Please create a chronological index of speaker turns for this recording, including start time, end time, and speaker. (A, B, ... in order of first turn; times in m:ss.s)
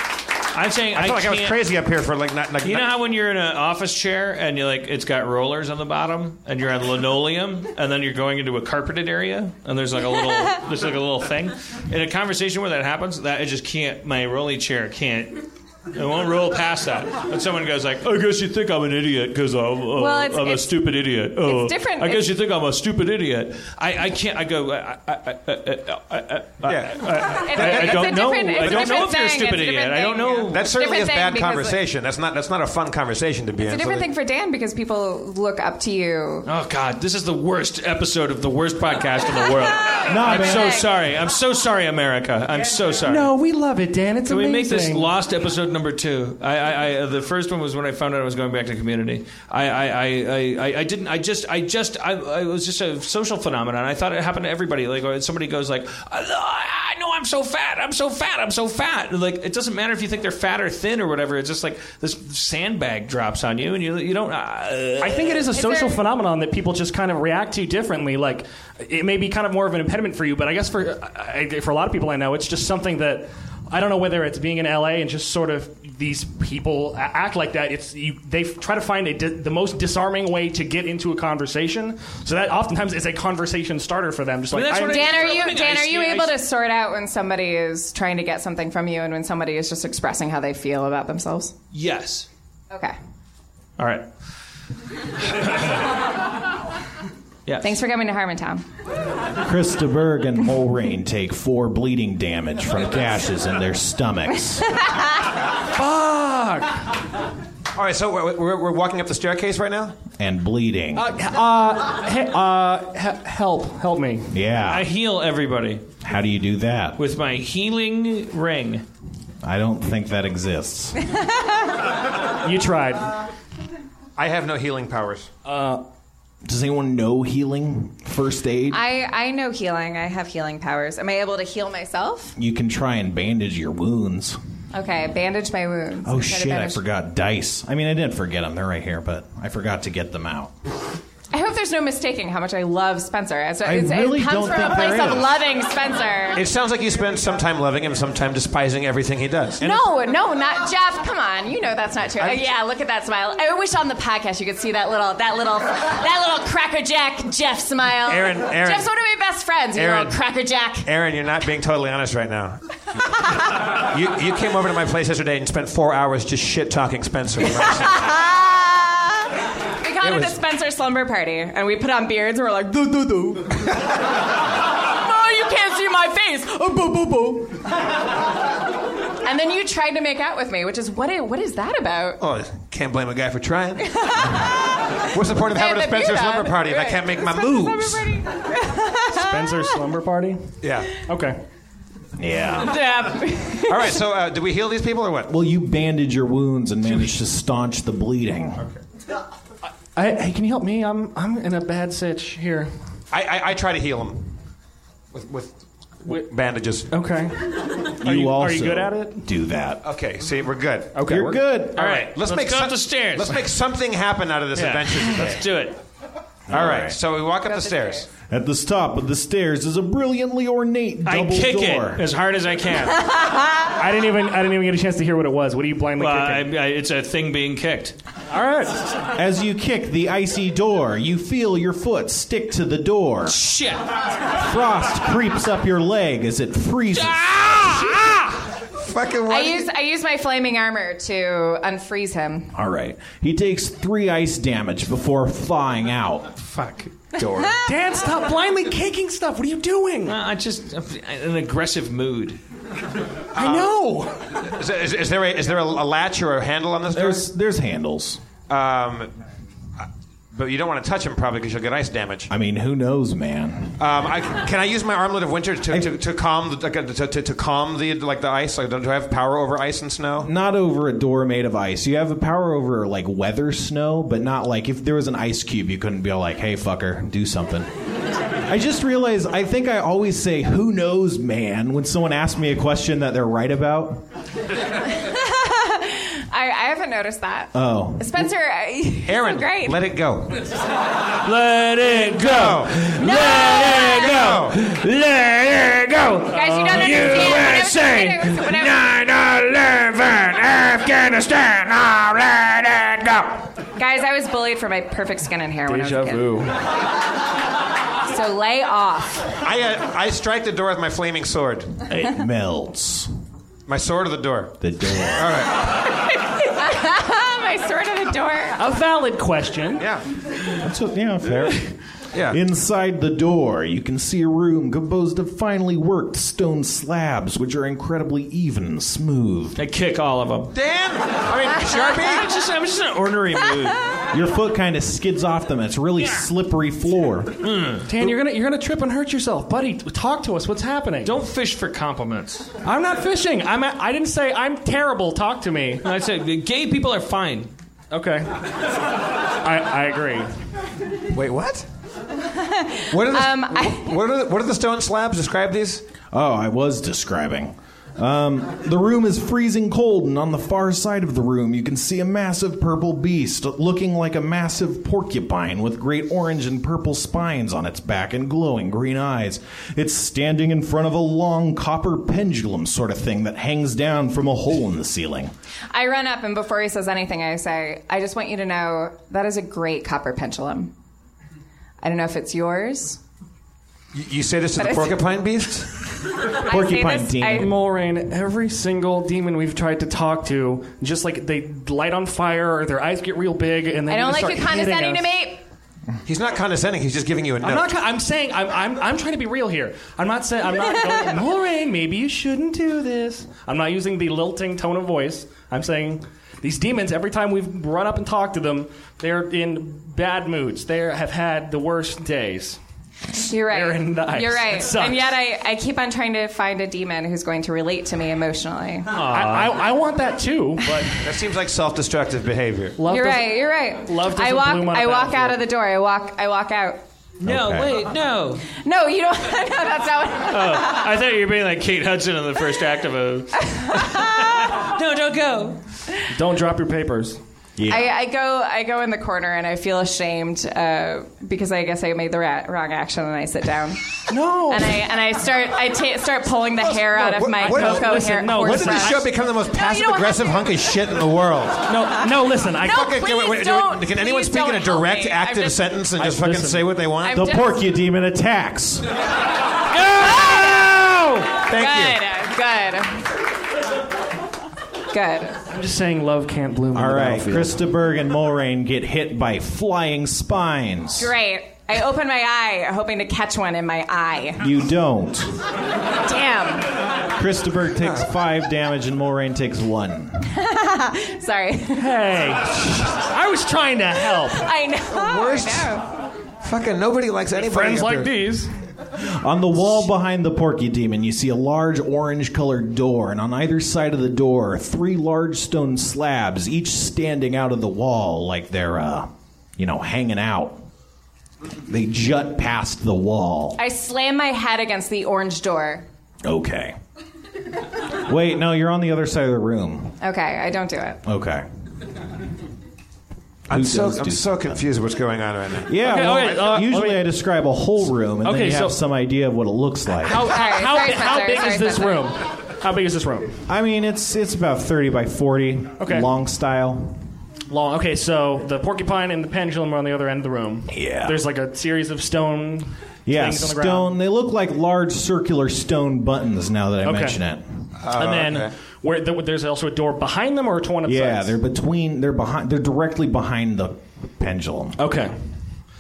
0:00.5-0:01.6 A
0:00.9-0:02.9 B
0:02.6-0:30.7 A
0:20.0-0:20.8 C
0:21.4-0:22.3 C
0:26.6-0:29.0 B
0:27.3-0:31.8 C
0:30.5-0:34.1 B
0:33.6-0:36.5 C
0:36.4-0:43.3 A
0:39.9-0:40.9 C
0:40.1-0:40.8 D
0:43.0-0:45.1 E
0:44.2-1:05.5 A
1:05.0-1:25.4 E
1:05.5-1:06.0 C
1:24.5-1:26.4 A
1:24.9-1:31.5 C
1:31.7-1:32.3 A
1:32.7-1:33.0 C
1:33.8-1:34.1 A
1:35.3-1:35.7 A
1:37.5-1:37.8 A
1:37.6-1:38.6 C
1:39.4-1:44.8 D
1:45.7-1:46.9 E
1:47.7-1:50.0 B
1:50.2-1:51.1 D
1:50.9-1:54.3 E
1:54.3-1:54.8 D
1:54.7-1:55.8 A
1:56.0-1:57.0 D
1:57.0-1:58.8 A
1:59.4-2:01.0 D
2:02.4-2:03.1 E
2:04.2-2:05.3 B
2:05.4-2:05.8 E
2:06.4-2:08.8 D
2:08.7-2:12.3 C
2:12.4-2:14.4 D
2:14.7-2:16.8 C
2:16.0-2:20.5 D
2:21.3-2:26.4 C
2:23.6-2:25.4 D
2:26.3-2:29.8 B
2:29.6-2:40.9 C
2:32.2-2:32.4 B
2:38.0-2:38.9 B
2:39.7-2:40.2 B
2:40.8-2:42.6 B
2:43.7-2:48.1 B
2:47.5-2:53.8 C
2:50.0-2:50.4 B
2:54.9-2:57.6 C
2:59.2-3:02.2 C
3:02.2-3:08.2 B
3:03.9-3:04.5 C
3:05.3-3:09.7 C
3:09.1-3:11.4 E
3:10.6-3:10.9 B
3:12.2-3:12.8 D
3:12.6-3:14.0 C
3:13.6-3:15.3 B
3:15.3-3:18.6 D
3:19.9-3:22.7 E
3:23.1-3:24.4 B
3:25.1-3:26.9 B
3:26.9-3:29.2 E
3:28.0-3:29.8 D
3:29.8-3:31.1 B
3:30.9-3:31.4 E
3:31.0-3:31.9 D
3:31.7-3:35.5 B
3:31.8-3:33.4 A
3:34.5-3:35.8 A
3:36.5-3:37.0 D
3:36.5-3:38.1 B
3:37.4-3:38.1 C
3:38.3-3:42.0 D
3:41.0-3:43.1 A
3:43.7-3:46.5 E
3:46.0-3:48.0 A
3:48.3-3:48.9 E
3:49.1-3:53.4 D
3:53.3-3:53.8 A
3:54.3-3:57.9 D
3:56.9-3:58.4 A
3:58.8-3:59.7 B
3:59.3-4:02.5 C
4:02.5-4:06.3 D
4:06.4-4:07.6 A
4:07.2-4:07.6 C
4:07.6-4:10.2 E
4:10.0-4:12.4 A
4:13.3-4:13.8 B
4:13.3-4:14.4 E
4:14.3-4:17.3 B
4:16.9-4:18.2 D
4:18.5-4:19.1 B
4:19.8-4:22.3 B
4:22.3-4:23.8 D
4:23.8-4:30.3 B
4:30.2-4:37.7 D
4:38.4-4:44.0 D
4:44.9-4:49.8 C
4:47.5-4:48.0 D
4:49.0-4:50.4 B
4:51.2-5:03.5 A
4:52.0-4:52.8 B
4:53.0-4:54.2 C
4:53.9-4:54.6 B
4:56.3-4:58.9 C
5:03.8-5:06.3 C
5:05.6-5:06.5 E
5:08.1-5:09.4 C
5:09.4-5:11.8 B
5:11.9-5:13.1 D
5:13.7-5:15.8 B
5:14.6-5:15.3 D
5:15.8-5:18.6 C
5:18.6-5:19.8 E
5:19.8-5:20.0 B
5:20.6-5:21.7 D
5:22.1-5:22.4 B
5:22.3-5:29.6 D
5:29.6-5:30.5 A
5:30.5-5:32.2 B
5:31.9-5:33.8 A
5:34.1-5:37.4 D
5:37.4-5:37.9 A
5:37.8-5:41.2 E
5:41.0-5:42.5 A
5:42.6-5:45.8 E
5:45.8-5:47.5 A
5:47.9-5:48.3 E
5:49.4-5:50.3 E
5:51.1-5:51.7 B
5:52.3-5:53.9 C
5:52.9-5:55.8 B
5:56.1-6:15.3 D
6:15.7-6:20.7 C
6:21.8-6:23.0 C
6:23.9-6:25.7 B
6:24.6-6:25.2 C
6:26.4-6:27.5 C
6:26.5-6:27.5 D
6:27.3-6:35.1 E
6:33.9-6:35.4 C
6:36.0-6:37.7 B
6:37.4-6:52.6 E
6:53.3-6:58.9 C
6:53.4-6:55.1 E
6:58.9-6:59.6 A
6:58.9-7:01.0 E
7:01.0-7:02.8 B
7:02.8-7:05.4 E
7:02.9-7:06.8 C
7:07.2-7:08.4 A
7:07.2-7:07.8 D
7:08.5-7:10.9 C
7:10.3-7:15.6 A
7:13.4-7:14.6 C
7:16.1-7:17.2 E
7:17.6-7:17.9 D
7:17.7-7:30.6 C
7:24.1-7:24.9 E
7:26.6-7:29.1 E
7:27.4-7:31.7 B
7:31.7-7:32.8 E
7:32.6-7:35.8 C
7:32.6-7:37.3 B
7:36.0-7:36.7 E
7:37.0-7:37.7 C
7:37.1-7:38.9 D
7:40.0-7:40.8 C
7:40.0-7:41.0 E
7:41.4-7:43.1 C
7:41.4-7:42.0 B
7:44.9-7:45.4 C
7:45.5-7:47.6 E
7:46.7-7:51.1 D
7:51.0-7:54.4 C
7:54.4-7:55.3 D
7:56.0-7:56.7 C
7:57.1-8:00.2 D
7:57.8-7:58.1 B
8:00.3-8:02.0 C
8:01.7-8:04.5 E
8:04.2-8:05.9 C
8:04.9-8:05.8 B
8:06.4-8:08.1 B
8:07.4-8:08.5 E
8:09.0-8:20.6 D
8:21.7-8:23.6 D
8:23.6-8:25.8 C
8:26.2-8:26.8 D
8:28.0-8:30.0 D
8:30.0-8:31.0 C
8:31.0-8:31.4 D
8:33.5-8:36.5 B
8:33.5-8:34.6 D
8:35.7-8:40.3 D
8:35.8-8:37.1 E
8:38.2-8:38.8 E
8:40.0-8:43.4 E
8:40.2-8:42.1 C
8:43.5-8:47.0 D
8:45.8-8:46.1 E
8:47.5-8:54.0 E
8:50.7-8:51.2 D
8:53.0-8:57.4 D
8:56.8-8:57.2 E
8:57.8-8:58.5 B
8:57.9-9:01.4 E
9:00.8-9:04.8 D
9:04.8-9:05.4 E